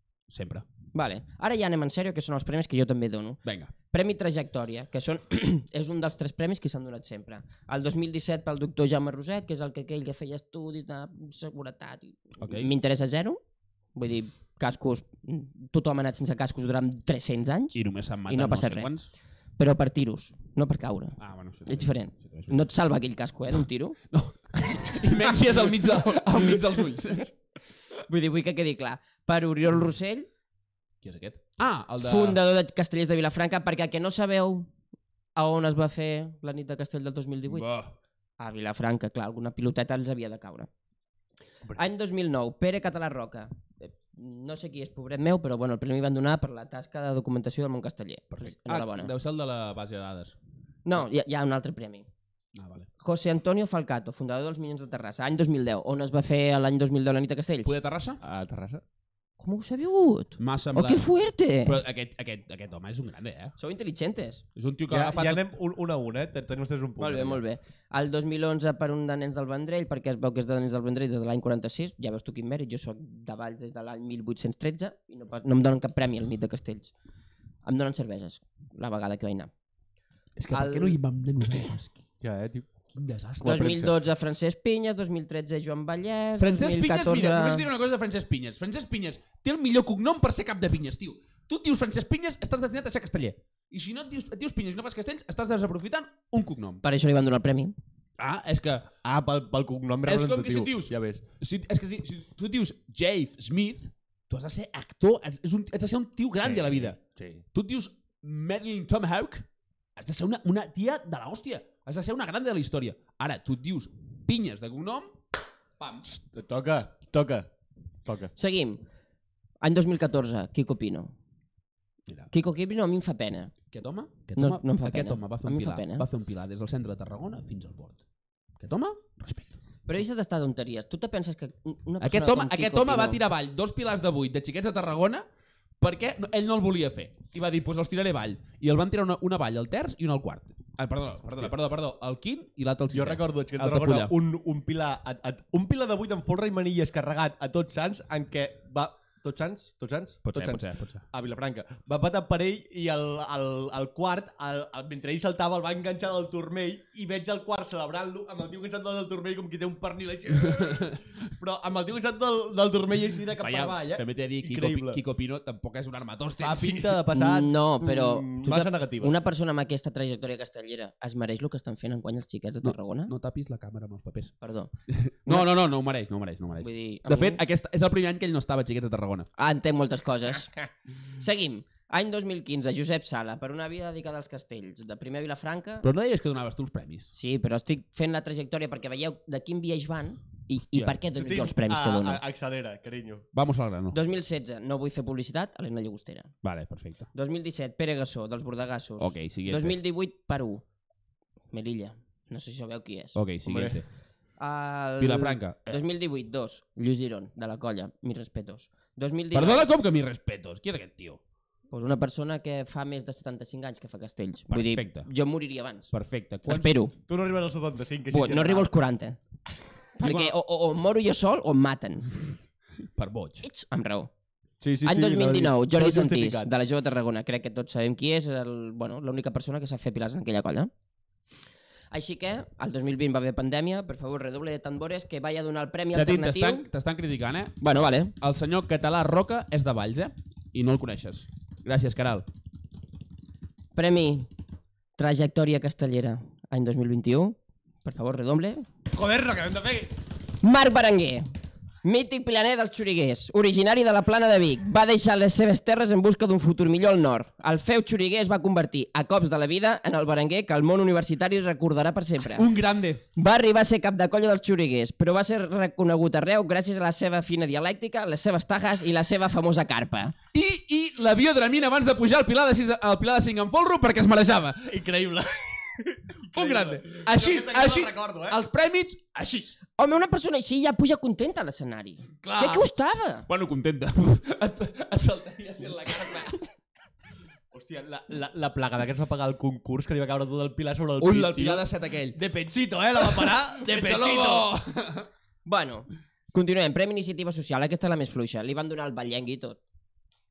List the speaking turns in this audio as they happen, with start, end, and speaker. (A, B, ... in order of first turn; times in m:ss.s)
0:00.3-0:00.7 A
0:00.9-0:03.4 B
0:03.4-0:03.7 A
0:03.9-0:13.4 B
0:12.4-0:12.7 A
0:14.0-0:18.9 B
0:17.7-0:19.1 A
0:19.6-0:24.0 B
0:21.2-0:22.6 A
0:24.1-0:27.3 A
0:28.1-0:30.3 B
0:31.0-0:32.4 A
0:32.0-0:34.7 B
0:35.4-0:37.7 B
0:37.5-0:37.9 A
0:38.4-0:40.7 B
0:41.8-0:49.1 B
0:48.4-0:50.4 A
0:50.8-0:52.1 B
0:52.6-0:52.9 A
0:53.0-0:57.7 B
0:57.6-0:58.2 A
0:58.2-0:58.8 C
0:59.4-1:01.8 B
1:00.4-1:01.1 A
1:01.6-1:03.5 A
1:03.6-1:04.4 B
1:04.6-1:05.4 A
1:04.9-1:07.4 C
1:07.0-1:16.9 B
1:17.6-1:19.5 B
1:20.4-1:22.0 A
1:20.5-1:21.0 B
1:22.2-1:22.7 C
1:22.9-1:24.0 A
1:23.4-1:27.7 B
1:26.4-1:36.8 A
1:36.8-1:37.8 B
1:38.2-1:38.9 A
1:39.0-1:41.2 C
1:40.1-1:47.0 A
1:46.4-1:47.4 C
1:47.5-1:49.5 A
1:50.0-1:55.2 A
1:55.8-1:56.0 A
1:56.0-1:57.5 C
1:58.1-1:58.3 C
1:58.4-1:58.8 B
1:59.6-2:01.1 B
2:02.3-2:03.5 B
2:03.7-2:08.0 A
2:04.4-2:06.0 B
2:08.6-2:09.6 A
2:09.9-2:13.2 B
2:12.0-2:15.3 A
2:15.8-2:24.1 A
2:22.9-2:45.0 C
2:30.3-2:31.0 A
2:40.4-2:41.0 A
2:43.4-2:47.0 A
2:46.4-2:49.1 C
2:47.1-2:53.1 B
2:52.6-2:54.3 A
2:54.4-2:54.7 B
2:54.9-2:59.3 A
2:56.6-2:57.4 B
2:59.4-3:00.5 B
3:01.2-3:05.9 B
3:05.8-3:07.1 A
3:07.1-3:12.2 B
3:11.2-3:13.3 C
3:13.3-3:14.0 A
3:13.9-3:16.3 B
3:16.4-3:17.1 A
3:17.1-3:20.6 B
3:19.0-3:19.8 A
3:21.5-3:23.2 B
3:23.2-3:23.8 A
3:23.4-3:23.8 C
3:24.4-3:29.7 B
3:25.0-3:25.8 A
3:29.3-3:31.2 A
3:31.7-3:35.9 B
3:34.5-3:35.1 A
3:35.9-3:36.8 A
3:36.4-3:36.9 B
3:37.1-3:38.7 C
3:38.1-3:39.2 B
3:40.0-3:42.1 B
3:43.0-3:43.5 A
3:43.4-3:44.1 B
3:44.6-3:46.5 C
3:44.8-3:50.7 B
3:51.9-3:56.7 B
3:55.9-3:57.6 A
3:57.6-3:58.1 B
3:58.2-4:02.3 A
4:03.8-4:04.3 B
4:05.0-4:08.7 B
4:08.9-4:09.9 C
4:10.4-4:11.3 B
4:11.8-4:22.5 B
4:22.4-4:23.0 A
4:23.2-4:30.2 B
4:30.3-4:34.8 A
4:34.7-4:38.4 C
4:36.3-4:39.6 A
4:39.8-4:43.3 B
4:42.2-4:42.6 A
4:43.3-4:46.4 A
4:47.5-4:54.5 C
4:51.0-4:52.2 A
4:53.0-4:55.1 A
4:55.5-4:59.6 B